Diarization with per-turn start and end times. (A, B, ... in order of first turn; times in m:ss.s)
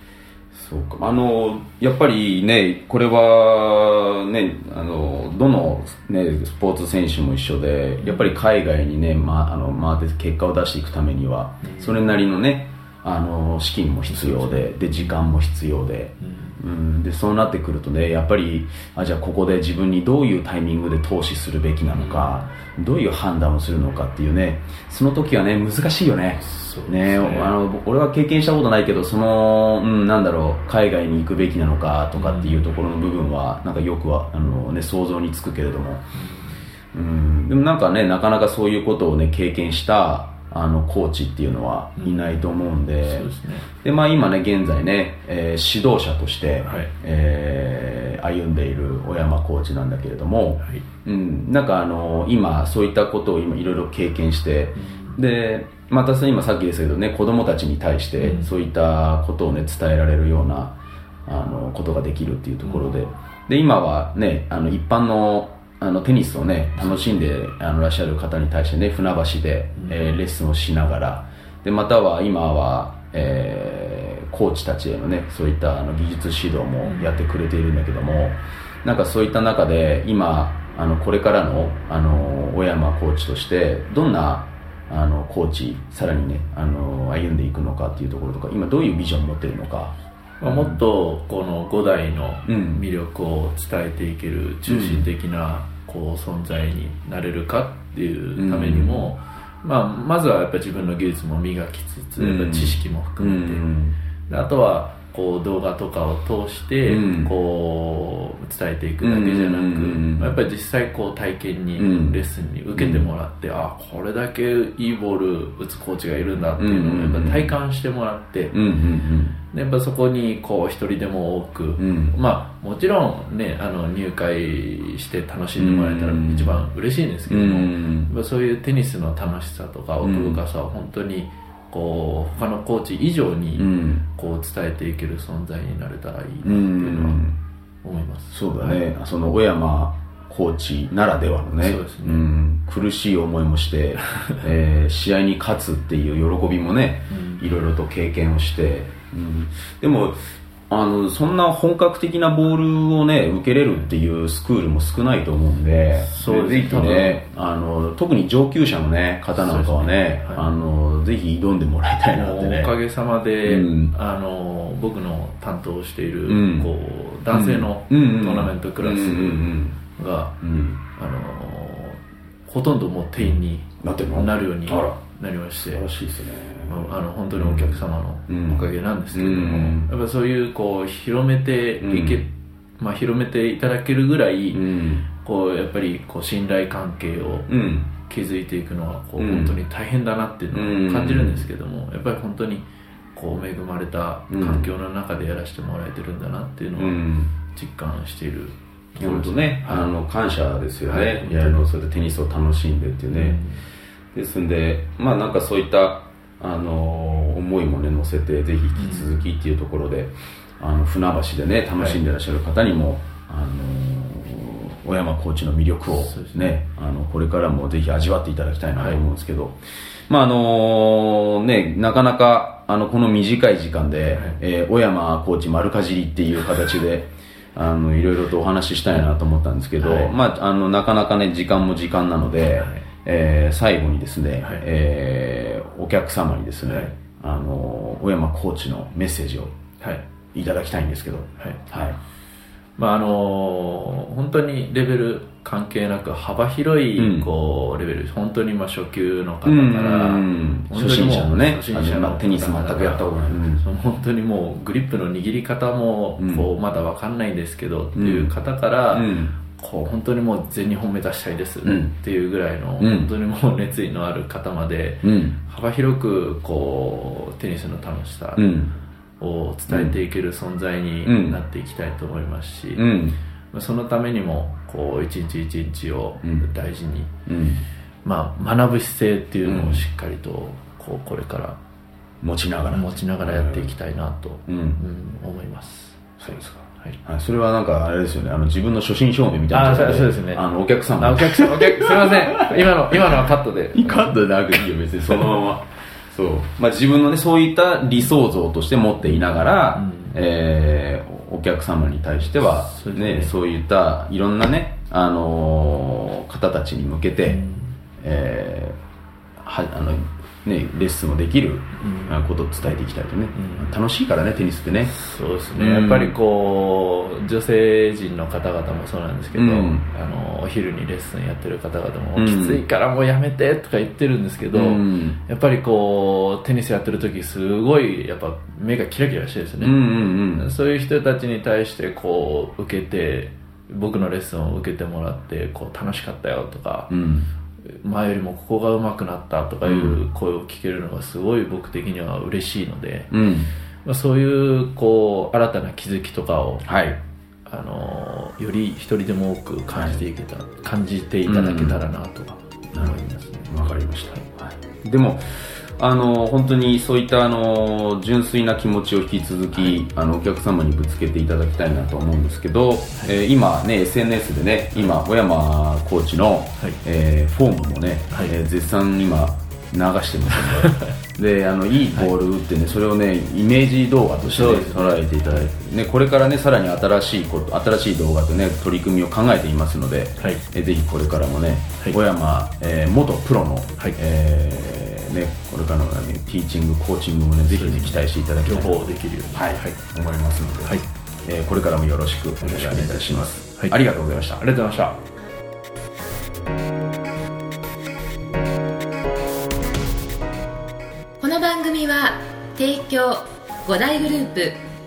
0:00.5-0:36.1 A
0:08.0-0:08.3 B
0:11.6-0:12.1 B
0:14.1-0:15.1 B
0:16.2-0:16.6 B
0:22.0-0:22.4 B
0:26.4-0:27.5 B
0:32.2-0:32.6 B
0:36.1-0:36.6 B
0:36.9-1:00.7 A
0:42.0-0:42.5 B
0:43.0-0:43.7 B
0:46.6-0:46.9 B
0:54.8-0:55.2 B
0:58.2-0:58.5 B
1:01.2-1:30.8 A
1:06.8-1:07.0 B
1:09.8-1:10.1 B
1:16.8-1:17.2 B
1:30.4-1:43.6 B
1:32.4-1:32.8 A
1:34.7-1:35.1 A
1:38.4-1:39.0 A
1:42.2-1:44.0 A
1:44.3-1:58.6 B
1:46.8-1:47.3 A
1:49.0-1:50.3 A
1:51.8-1:52.2 A
1:52.8-1:53.1 A
1:56.6-1:57.5 A
1:58.5-1:59.4 A
1:59.5-2:17.2 B
2:01.8-2:02.2 A
2:05.6-2:06.6 A
2:07.3-2:08.1 A
2:10.0-2:10.4 A
2:13.6-2:14.0 A
2:16.4-2:17.4 A
2:17.8-2:18.8 B
2:18.3-2:42.7 A
2:21.6-2:22.2 B
2:27.1-2:27.4 B
2:36.0-2:37.2 B
2:39.3-2:40.5 B
2:42.1-2:50.4 B
2:43.4-2:43.9 A
2:46.3-2:46.7 A
2:47.3-2:49.8 A
2:50.4-2:50.8 A
2:50.9-2:55.8 B
2:53.2-2:55.0 A
2:55.6-2:59.9 A
2:56.6-3:04.6 B
3:01.8-3:02.2 A
3:04.5-3:05.1 A
3:05.2-3:19.9 B
3:07.5-3:07.9 A
3:09.2-3:09.6 A
3:10.5-3:11.5 A
3:14.3-3:14.7 A
3:16.8-3:17.3 A
3:19.0-3:23.4 A
3:20.8-3:21.6 B
3:23.1-3:23.6 B
3:24.1-3:39.6 A
3:28.7-3:29.2 B
3:35.9-3:36.6 B
3:40.1-3:59.5 A
3:44.1-3:44.4 B
3:49.8-3:50.1 B
3:52.5-3:52.8 B
3:56.6-3:56.9 B
4:00.3-4:02.0 A
4:02.8-4:13.1 B
4:07.0-4:07.3 A
4:09.4-4:13.6 A
4:13.6-4:28.6 B
4:16.2-4:16.5 A
4:18.0-4:18.3 A
4:18.9-4:19.3 A
4:21.6-4:21.9 A
4:22.8-4:23.1 A
4:25.0-4:25.4 A
4:28.4-4:28.7 A
4:29.2-4:32.9 B
4:29.7-4:30.0 A
4:31.0-4:31.4 A
4:32.8-4:33.2 A
4:33.5-4:37.1 B
4:37.2-4:37.6 A
4:38.0-4:41.6 B
4:39.4-4:39.8 A
4:42.2-4:43.7 A
4:42.7-4:47.0 B
4:44.5-4:44.8 A
4:46.2-4:53.2 A
4:49.5-4:50.4 B
4:51.0-4:54.2 B
4:53.7-5:07.4 A
4:59.7-5:00.2 B
5:02.3-5:03.3 B
5:07.2-5:07.7 B
5:08.0-5:08.8 A
5:09.4-5:14.9 A
5:11.8-5:12.2 B
5:13.3-5:13.7 B
5:14.9-5:36.9 B
5:15.6-5:16.2 A
5:19.4-5:19.8 A
5:22.2-5:22.6 A
5:24.5-5:25.2 A
5:29.6-5:30.5 A
5:36.9-5:37.3 A
5:37.6-5:43.1 B
5:39.6-5:40.0 A
5:43.1-5:43.5 A
5:43.8-5:46.7 B
5:46.6-5:47.0 A
5:47.5-5:53.5 B
5:49.7-5:50.0 A
5:51.2-5:51.8 A
5:52.7-6:28.8 A
6:10.3-6:10.9 B
6:14.2-6:15.5 B
6:27.5-6:29.8 B
6:29.3-6:34.4 A
6:32.4-6:33.8 B
6:34.4-6:35.0 B
6:41.2-6:44.6 C